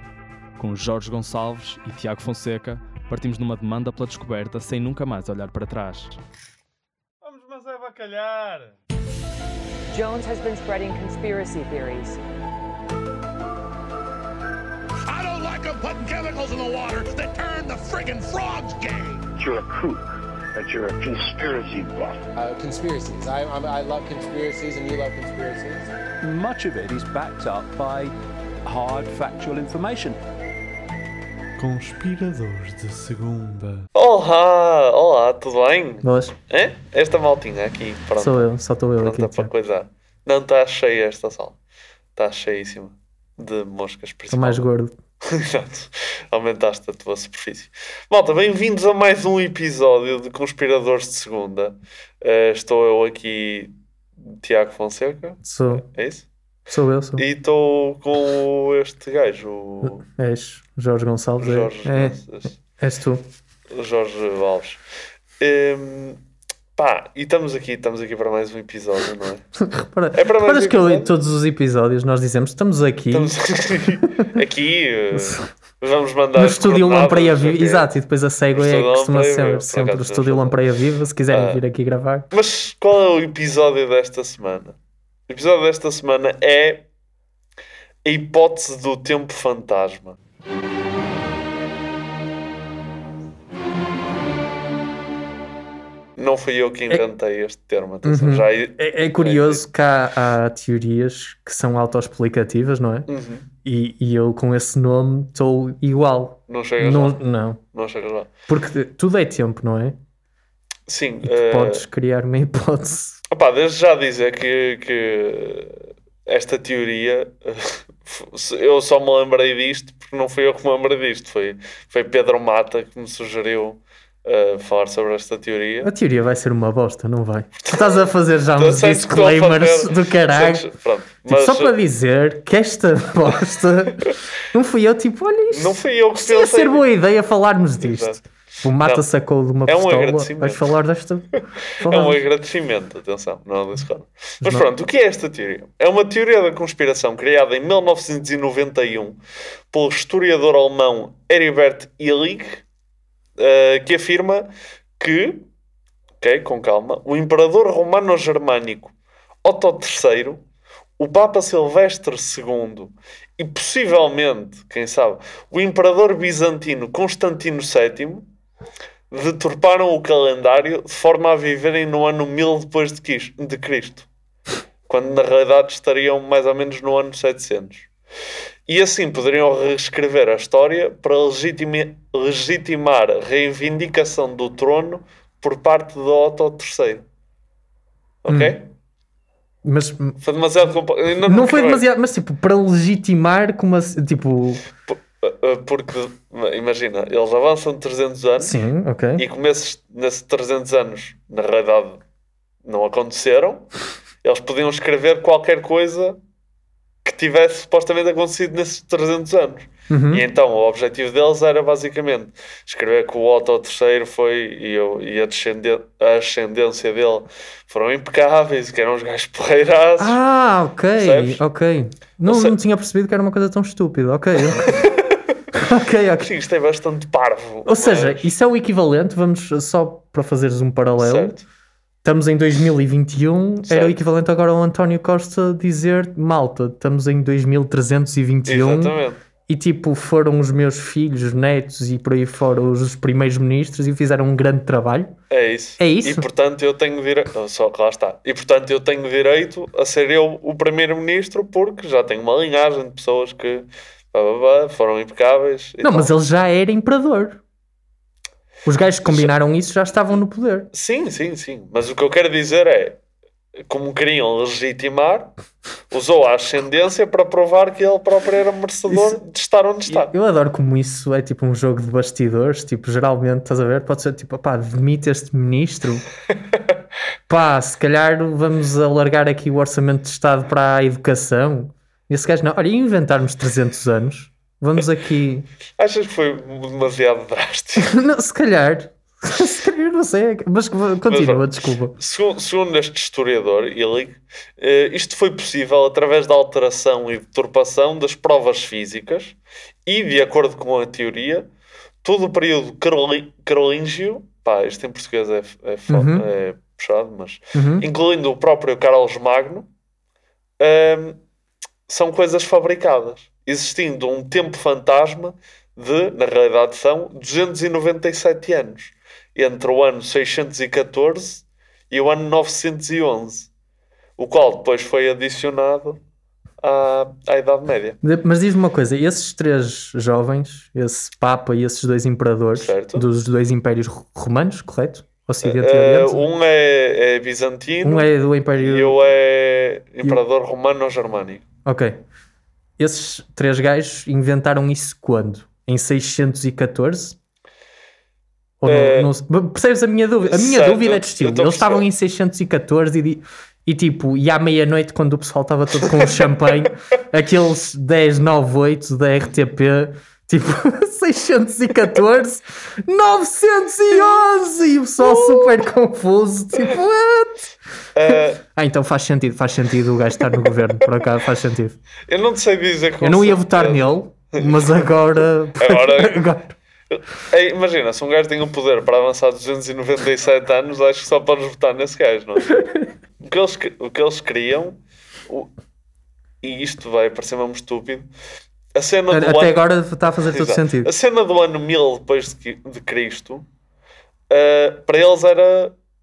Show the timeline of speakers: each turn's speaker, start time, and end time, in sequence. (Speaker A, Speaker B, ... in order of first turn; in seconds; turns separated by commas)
Speaker A: 0.6-6.2, Speaker B: 7.2-8.8, Speaker C: 9.9-12.2, Speaker D: 15.1-19.3, Speaker E: 19.4-22.3, Speaker F: 22.4-25.9, Speaker G: 26.2-28.1, Speaker G: 28.6-30.2, Speaker B: 31.6-38.5, Speaker H: 36.0-36.4, Speaker H: 38.2-39.5, Speaker B: 39.0-41.6, Speaker B: 42.2-44.6, Speaker H: 44.3-45.0, Speaker B: 45.3-53.7, Speaker B: 54.3-56.2, Speaker H: 55.4-55.9, Speaker H: 56.7-57.2, Speaker B: 57.2-60.0, Speaker H: 59.8-62.2, Speaker B: 61.4-62.5, Speaker H: 62.8-63.2, Speaker B: 63.7-64.8, Speaker B: 65.4-66.2, Speaker B: 66.8-69.4, Speaker H: 69.6-73.3, Speaker B: 70.1-71.1, Speaker B: 73.1-77.9, Speaker H: 75.1-75.4, Speaker H: 76.3-82.3, Speaker B: 78.5-80.6, Speaker B: 81.3-81.6, Speaker B: 82.3-84.8, Speaker B: 85.3-86.8, Speaker B: 88.1-90.2, Speaker B: 96.2-99.6, Speaker H: 98.0-103.1, Speaker B: 103.1-103.5, Speaker H: 103.6-107.6, Speaker B: 106.5-107.2, Speaker B: 107.7-108.3, Speaker H: 108.5-110.0, Speaker B: 110.9-111.8, Speaker H: 111.2-113.2, Speaker B: 113.3-125.9, Speaker H: 125.8-130.7, Speaker B: 128.6-131.7, Speaker H: 131.3-142.2, Speaker B: 135.5-136.8, Speaker B: 137.8-138.2, Speaker B: 139.7-140.6, Speaker B: 141.8-149.2, Speaker B: 149.7-152.6, Speaker B: 153.4-154.5, Speaker B: 155.0-155.5, Speaker B: 156.2-158.9, Speaker B: 159.4-160.4, Speaker B: 161.0-168.2, Speaker B: 169.1-174.1, Speaker B: 174.9-177.9, Speaker B: 178.7-187.0, Speaker B: 188.2-188.7, Speaker H: 188.3-188.6, Speaker H: 189.7-190.2, Speaker B: 190.2-191.8, Speaker H: 191.2-194.6, Speaker B: 194.9-198.6, Speaker H: 198.4-199.3, Speaker B: 199.2-202.0, Speaker B: 202.7-203.7, Speaker B: 204.2-206.2, Speaker B: 207.1-220.2, Speaker H: 209.9-210.2, Speaker H: 220.0-224.9, Speaker B: 221.0-221.4, Speaker B: 222.3-222.5, Speaker B: 224.5-225.0, Speaker H: 225.5-226.3, Speaker B: 226.2-228.3, Speaker H: 227.7-231.3, Speaker B: 231.0-231.4, Speaker H: 232.0-245.1, Speaker B: 233.7-234.0, Speaker B: 238.5-239.2, Speaker B: 245.3-256.1, Speaker H: 245.8-246.3, Speaker H: 255.8-257.4, Speaker H: 258.7-260.7, Speaker B: 260.7-263.0, Speaker B: 263.7-265.3, Speaker B: 265.9-270.1, Speaker H: 268.9-269.2, Speaker H: 269.9-276.1, Speaker H: 277.3-285.5, Speaker B: 285.8-287.9, Speaker H: 287.8-291.9, Speaker B: 291.1-291.4, Speaker B: 292.0-299.4, Speaker B: 299.9-301.5, Speaker B: 302.0-309.7, Speaker H: 305.9-306.3, Speaker H: 307.6-307.9, Speaker B: 310.6-311.2, Speaker B: 311.9-323.5, Speaker B: 324.2-326.0, Speaker B: 326.6-328.0, Speaker H: 328.0-336.2, Speaker B: 332.6-333.1, Speaker B: 335.4-341.4, Speaker H: 337.8-339.0, Speaker H: 341.7-342.0, Speaker H: 342.8-347.2, Speaker H: 348.6-367.5, Speaker B: 348.7-349.1, Speaker B: 350.3-351.8, Speaker B: 365.1-365.5, Speaker B: 368.0-368.4, Speaker H: 368.6-371.8, Speaker B: 372.1-374.9, Speaker H: 373.0-376.5, Speaker B: 375.6-376.2, Speaker B: 376.9-382.5, Speaker B: 383.2-384.8, Speaker B: 386.4-388.1, Speaker B: 388.8-393.4, Speaker H: 389.1-390.9, Speaker B: 394.3-395.7